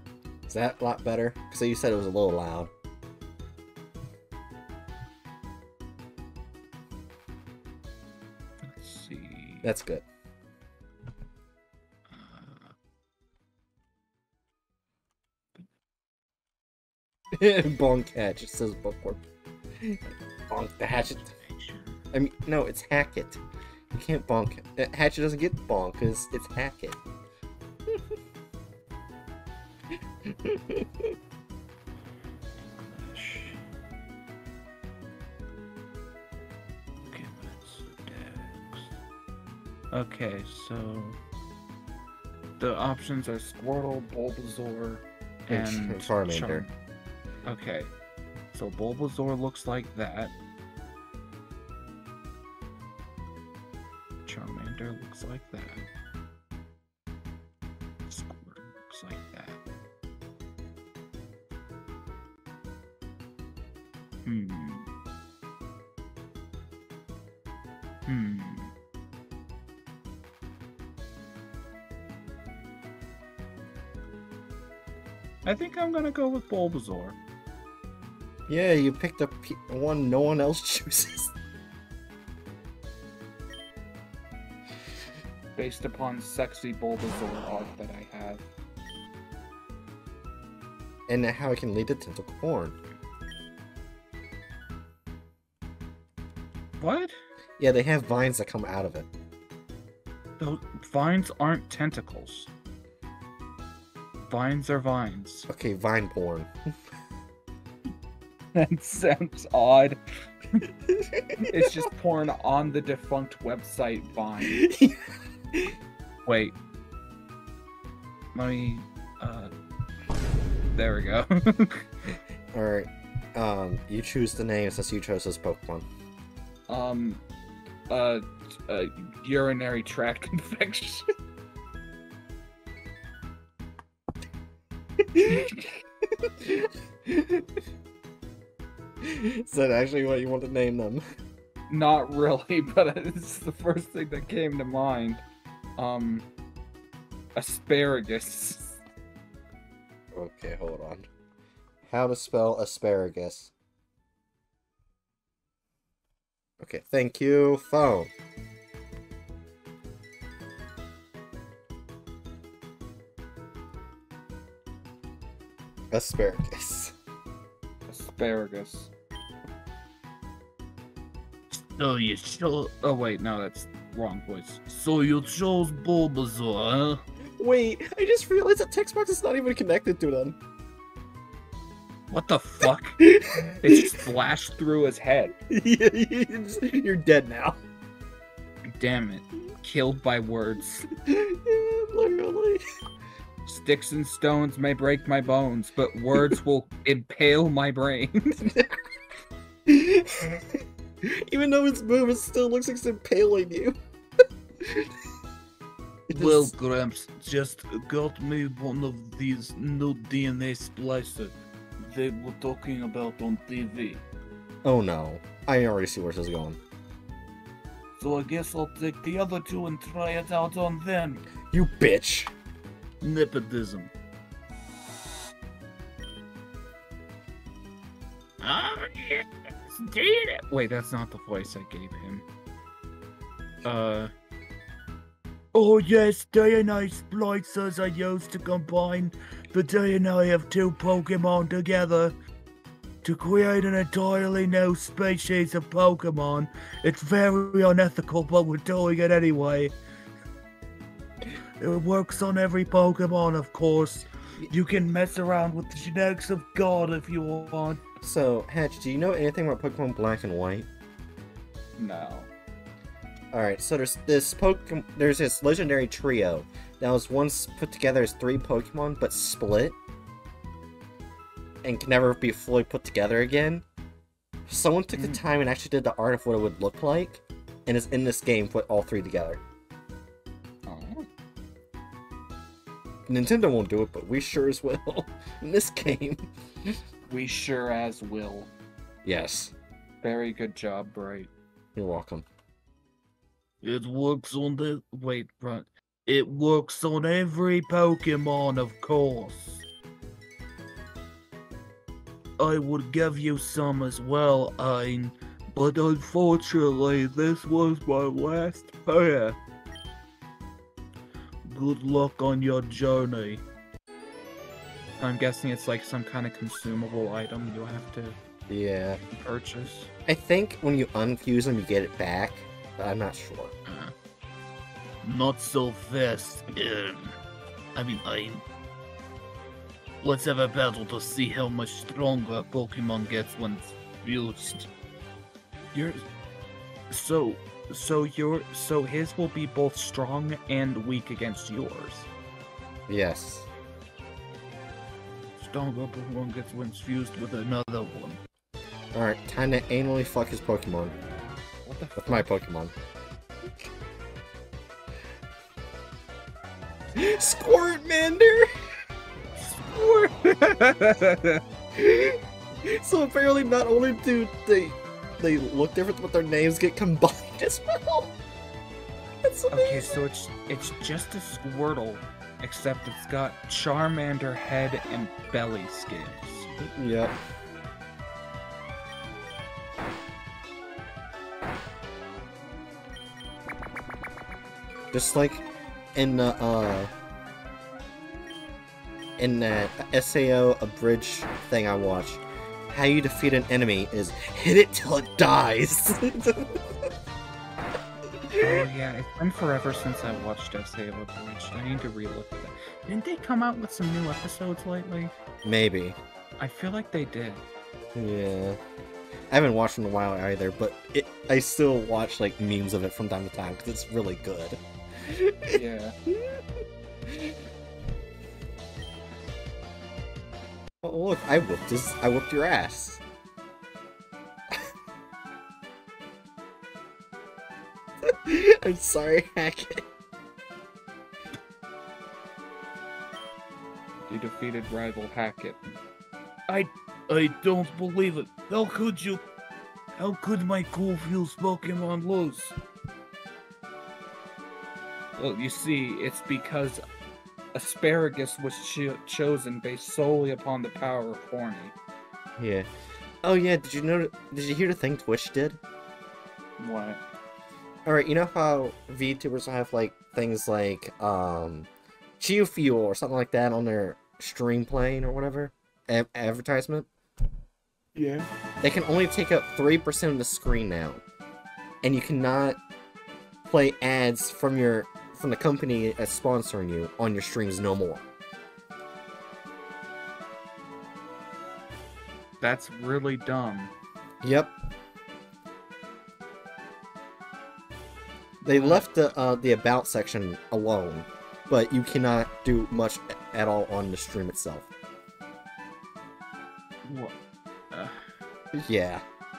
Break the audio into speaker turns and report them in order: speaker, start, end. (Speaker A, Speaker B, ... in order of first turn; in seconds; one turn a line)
Speaker A: 0.5-2.7
Speaker B: 8.7-9.7
Speaker A: 9.6-10.1
Speaker B: 12.1-12.7
Speaker A: 17.3-19.2
Speaker A: 19.8-21.3
Speaker B: 21.3-22.0
Speaker A: 22.1-23.4
Speaker A: 23.9-27.0
Speaker A: 30.2-31.1
Speaker C: 32.9-33.5
Speaker C: 37.1-38.9
Speaker B: 39.9-41.2
Speaker B: 42.6-46.7
Speaker A: 45.5-46.7
Speaker B: 47.4-47.9
Speaker B: 48.5-50.3
Speaker B: 54.2-55.9
Speaker B: 58.1-59.6
Speaker B: 64.2-64.9
Speaker B: 68.1-68.7
Speaker B: 75.4-77.2
Speaker A: 78.5-81.3
Speaker B: 85.6-88.4
Speaker A: 91.1-92.8
Speaker B: 96.8-97.1
Speaker A: 97.6-99.1
Speaker B: 100.4-102.5
Speaker B: 104.2-105.5
Speaker A: 105.5-106.5
Speaker B: 108.5-110.0
Speaker A: 110.9-111.8
Speaker B: 111.5-114.6
Speaker A: 114.5-115.8
Speaker B: 116.2-116.5
Speaker B: 118.3-119.5
Speaker B: 120.7-121.9
Speaker A: 122.5-125.8
Speaker B: 126.7-127.2
Speaker B: 127.9-131.1
Speaker A: 135.0-135.5
Speaker B: 135.3-135.8
Speaker A: 136.0-137.5
Speaker A: 139.0-141.0
Speaker B: 141.7-145.2
Speaker B: 145.8-146.2
Speaker B: 147.3-148.8
Speaker A: 150.1-151.1
Speaker A: 151.9-153.5
Speaker A: 156.6-158.1
Speaker A: 165.9-166.9
Speaker B: 167.9-168.9
Speaker C: 171.5-172.7
Speaker B: 172.7-174.8
Speaker C: 174.8-177.0
Speaker A: 177.4-180.4
Speaker B: 182.1-183.0
Speaker A: 183.1-183.7
Speaker B: 183.6-185.3
Speaker A: 185.5-187.6
Speaker B: 188.7-190.9
Speaker A: 190.9-192.6
Speaker B: 193.4-198.4
Speaker A: 198.4-198.8
Speaker A: 199.7-203.8
Speaker A: 204.6-204.9
Speaker A: 206.1-206.5
Speaker C: 206.1-214.0
Speaker A: 214.6-216.6
Speaker C: 218.0-221.2
Speaker A: 221.5-222.3
Speaker C: 223.0-223.9
Speaker B: 228.4-232.2
Speaker B: 233.6-234.1
Speaker C: 235.5-242.1
Speaker C: 243.0-249.7
Speaker C: 251.6-257.8
Speaker A: 258.0-260.7
Speaker B: 261.8-262.3
Speaker A: 263.3-269.8
Speaker A: 271.6-273.6
Speaker A: 274.5-279.4
Speaker B: 274.9-275.2
Speaker B: 280.6-281.1
Speaker A: 283.1-286.8
Speaker B: 287.1-288.5
Speaker A: 289.0-289.5
Speaker B: 290.0-291.3
Speaker A: 291.8-292.2
Speaker C: 293.6-299.6
Speaker C: 302.4-309.4
Speaker C: 311.5-313.4
Speaker B: 315.0-318.2
Speaker A: 318.5-319.0
Speaker B: 319.1-319.9
Speaker A: 320.1-323.5
Speaker C: 325.0-327.1
Speaker C: 327.7-328.4
Speaker C: 330.0-334.7
Speaker B: 335.7-336.0
Speaker B: 336.9-342.1
Speaker A: 342.9-343.5
Speaker C: 345.4-348.2
Speaker A: 348.9-351.0
Speaker B: 351.6-352.3
Speaker A: 351.9-352.7
Speaker A: 356.9-358.5
Speaker B: 359.4-361.4
Speaker A: 361.7-368.1
Speaker A: 369.2-370.0
Speaker B: 369.5-376.5
Speaker A: 376.6-377.1
Speaker A: 384.9-386.9
Speaker A: 389.2-396.7
Speaker A: 398.3-398.6
Speaker B: 398.4-405.1
Speaker A: 405.4-406.0
Speaker B: 406.4-407.4
Speaker A: 407.9-408.6
Speaker A: 409.3-415.6
Speaker B: 415.5-415.9
Speaker A: 416.1-416.4
Speaker A: 417.1-417.3
Speaker A: 420.8-423.0
Speaker A: 428.0-429.8
Speaker B: 434.1-435.6
Speaker C: 436.5-439.2
Speaker C: 440.0-442.5
Speaker B: 445.2-446.8
Speaker B: 447.5-451.8
Speaker A: 452.4-452.7
Speaker A: 453.2-455.6
Speaker B: 456.6-457.0
Speaker A: 457.8-461.7
Speaker A: 462.2-466.9
Speaker B: 468.0-468.2
Speaker A: 468.6-471.0
Speaker A: 471.8-472.6
Speaker A: 473.5-478.0
Speaker B: 482.4-483.7
Speaker A: 484.2-484.5
Speaker B: 488.4-488.9
Speaker A: 488.4-494.7
Speaker B: 496.8-497.2
Speaker B: 497.7-498.0
Speaker A: 498.5-499.0